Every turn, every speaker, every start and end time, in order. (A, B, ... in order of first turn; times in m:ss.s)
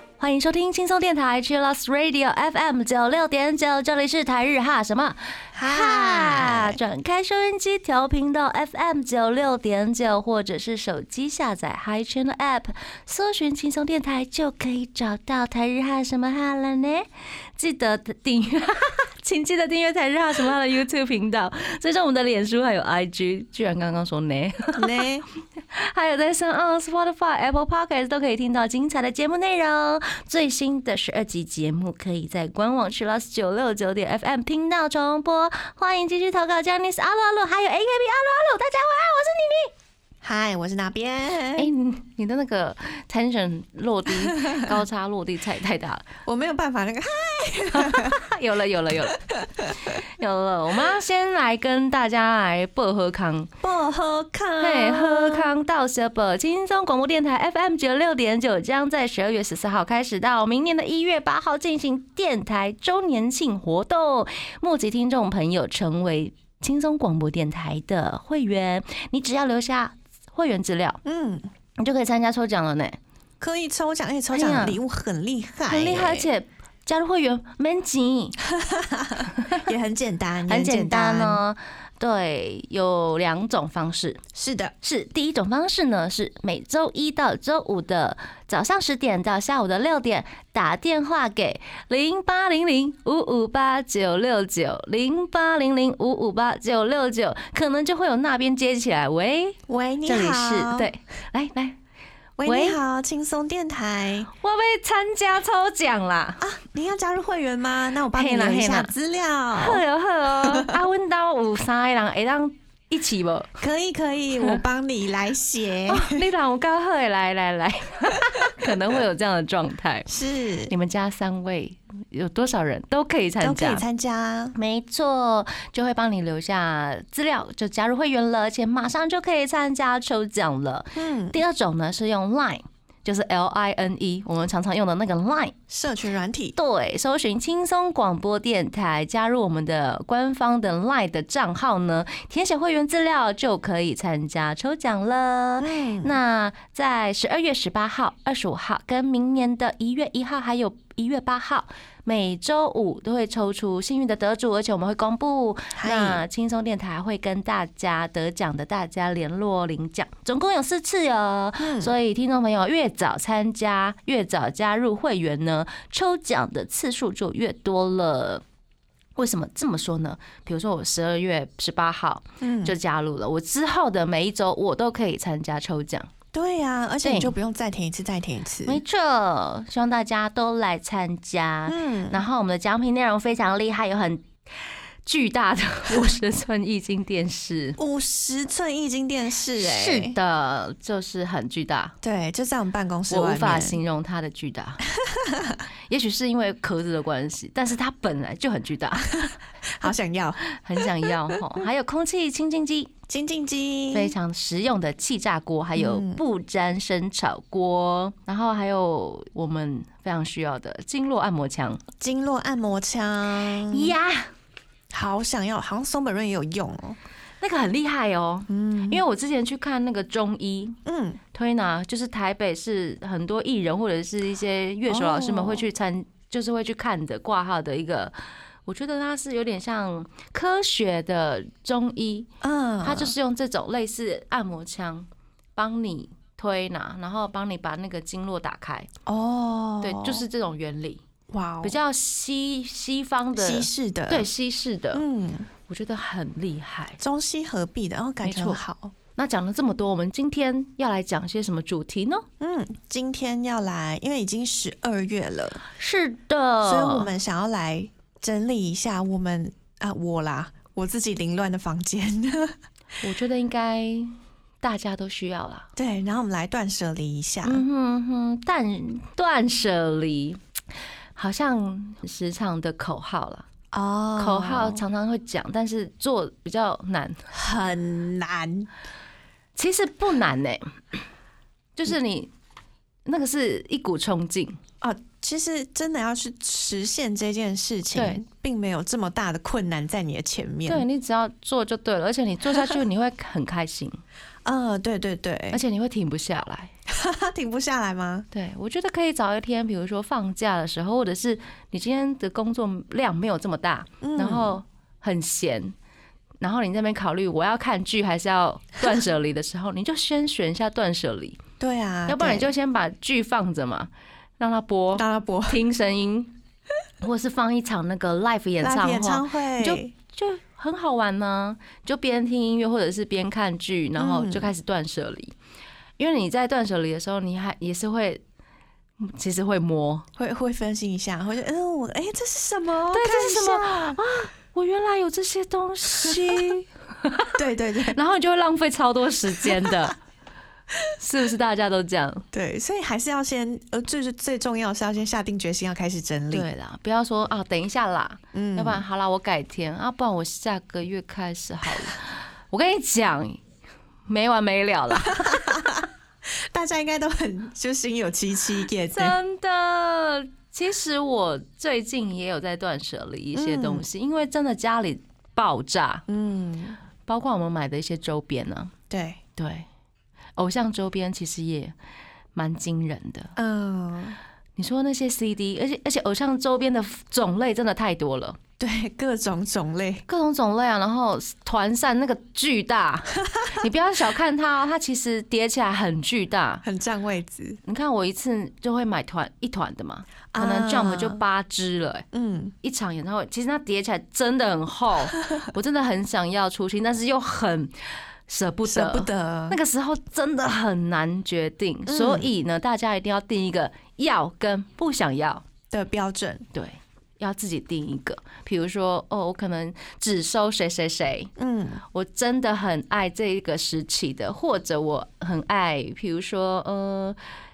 0:00.2-0:25.0 A
0:05.6-0:06.8 B
0:24.8-0:25.3 B
0:25.7-0:39.7 A
0:40.2-0:41.7 B
0:41.6-0:46.1 A
0:44.2-0:44.6 B
0:46.2-0:48.2 B
0:47.7-0:49.2 A
0:49.3-0:50.0 B
0:49.9-0:53.5 A
0:53.6-0:55.5 B
0:54.6-1:11.0 A
1:11.0-1:11.5 B
1:11.8-1:13.0 A
1:13.4-1:16.3 B
1:14.3-1:14.8 A
1:15.7-1:18.4 A
1:18.5-1:21.4 B
1:20.5-1:24.2 A
1:24.3-1:24.7 B
1:24.8-1:41.8 A
1:39.7-1:40.9 B
1:42.4-1:44.3 B
1:42.4-1:42.8 A
1:44.4-1:46.5 A
1:46.4-1:49.8 B
1:48.1-1:48.9 A
1:49.6-1:53.6 A
1:50.4-1:50.8 B
1:53.6-1:56.3 B
1:55.9-2:00.1 A
1:58.1-1:58.8 B
2:00.1-2:00.7 B
2:00.7-2:03.8 A
2:03.4-2:04.6 B
2:04.6-2:15.6 A
2:11.0-2:11.4 B
2:15.7-2:16.6 B
2:16.6-2:48.4 A
2:25.6-2:26.2 B
2:35.8-2:36.2 B
2:41.6-2:41.9 B
2:49.2-2:56.1 A
2:52.4-2:52.8 B
2:56.3-2:58.8 B
2:57.0-2:57.3 A
2:58.7-3:04.3 A
3:01.7-3:02.2 B
3:05.0-3:07.8 A
3:07.8-3:10.2 B
3:09.6-3:12.0 A
3:12.0-3:13.8 B
3:13.1-3:14.9 A
3:15.0-3:15.6 B
3:15.9-3:19.4 A
3:19.1-3:21.4 B
3:20.4-3:22.9 A
3:23.1-3:24.2 B
3:23.9-3:31.8 A
3:25.8-3:26.2 B
3:32.0-3:34.0 B
3:33.6-3:34.3 A
3:34.9-3:37.0 B
3:37.4-3:40.8 A
3:38.5-3:39.0 B
3:40.9-3:41.2 B
3:41.3-3:48.2 A
3:44.9-3:45.7 B
3:48.7-3:52.3 A
3:52.4-3:53.2 B
3:52.8-3:58.9 A
3:59.1-4:00.3 B
3:59.8-4:01.0 A
4:01.3-4:01.8 B
4:01.6-4:05.0 A
4:03.4-4:04.3 B
4:04.9-4:05.5 B
4:05.7-4:07.0 A
4:07.0-4:08.9 B
4:08.2-4:08.6 A
4:09.2-4:12.3 A
4:12.4-4:15.6 B
4:15.7-4:17.1 A
4:16.6-4:22.6 B
4:23.0-4:25.7 A
4:25.8-4:27.6 B
4:27.4-4:30.4 A
4:31.2-4:33.5 A
4:33.7-4:34.8 B
4:34.2-4:37.2 A
4:37.3-4:38.7 B
4:39.6-4:41.0 A
4:41.8-4:42.3 A
4:43.1-4:44.6 A
4:44.8-4:50.9 B
4:47.9-4:48.2 A
4:50.7-4:54.0 A
4:52.5-4:52.8 B
4:54.4-4:55.6 B
4:55.5-4:56.7 A
4:56.9-4:58.3 B
4:58.3-5:05.7 A
5:04.0-5:04.6 B
5:06.4-5:11.4 A
5:11.6-5:12.5 B
5:12.1-5:16.3 A
5:15.0-5:15.6 B
5:17.0-5:25.3 A
5:18.6-5:19.9 B
5:24.0-5:24.5 B
5:26.0-5:28.2 A
5:29.0-5:30.1 A
5:30.2-5:34.0 B
5:32.9-5:37.4 A
5:35.9-5:36.6 B
5:37.4-5:38.0 B
5:37.9-5:40.0 A
5:39.4-5:39.9 B
5:41.0-5:42.3 A
5:42.3-5:46.5 B
5:46.3-5:53.4 A
5:48.3-5:48.8 B
5:54.1-5:55.7 A
5:55.0-5:59.2 B
5:58.9-6:06.0 A
6:03.3-6:03.9 B
6:06.1-6:06.8 B
6:07.1-6:08.7 A
6:08.9-6:09.2 B
6:09.4-6:09.7 A
6:10.4-6:11.7 A
6:12.4-6:13.4 A
6:13.4-6:14.2 B
6:14.6-6:18.4 A
6:18.6-6:20.0 B
6:20.1-6:26.6 A
6:23.3-6:23.6 B
6:26.6-6:27.6 B
6:27.6-6:32.1 A
6:30.3-6:31.2 B
6:32.1-6:32.5 B
6:32.6-6:37.7 A
6:38.3-6:45.4 A
6:38.7-6:39.6 B
6:41.9-6:42.3 B
6:45.7-6:46.5 B
6:46.5-6:51.3 A
6:51.4-6:51.8 B
6:51.9-6:57.2 A